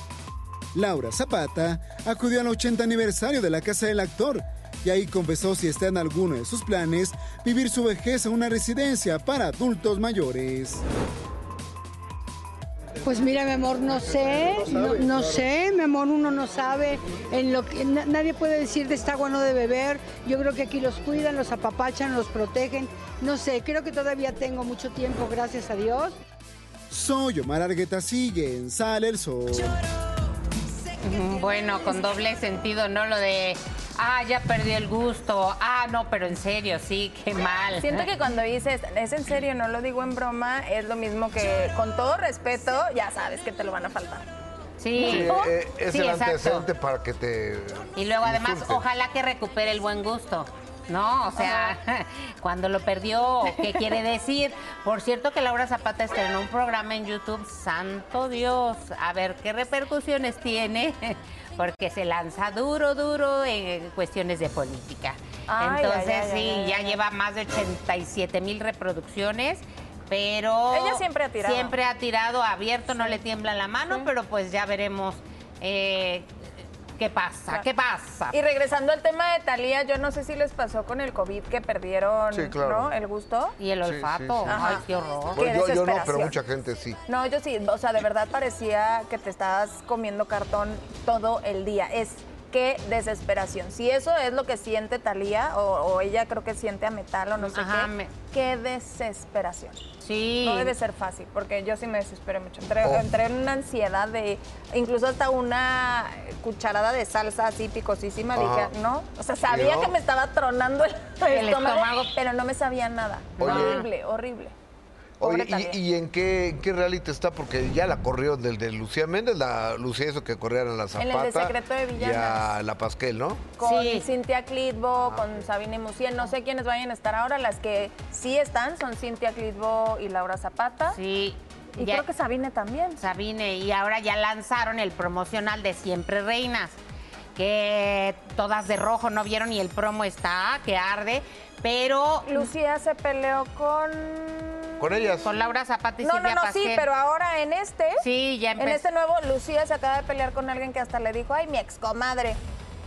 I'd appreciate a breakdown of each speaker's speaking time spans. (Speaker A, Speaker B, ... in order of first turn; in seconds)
Speaker A: 0.7-10.8, 26.9-29.8
Speaker B: 13.0-26.2
Speaker C: 31.0-38.1, 44.8-46.7, 48.0-76.3, 77.0-78.3, 83.6-85.4, 97.4-98.1, 100.0-100.7, 111.3-112.1, 113.4-113.9, 123.6-124.1, 130.9-132.1, 133.0-136.8, 137.4-142.5, 145.2-146.8, 148.0-148.9
Speaker D: 37.8-44.2, 45.0-45.5, 51.4-51.7, 53.4-53.9, 65.5-67.0, 70.7-71.7, 72.9-73.2, 78.3-83.6, 84.5-86.3, 87.1-99.8, 100.4-114.5, 115.2-115.8, 121.0-122.5, 123.6-131.0, 131.8-133.0, 142.2-145.1, 146.0-148.1, 148.6-152.4
Speaker E: 45.0-48.8, 82.3-83.0, 83.8-84.7, 85.3-87.0, 108.3-108.7, 109.5-110.0, 113.4-113.8, 115.2-123.5, 125.0-125.5, 144.8-145.3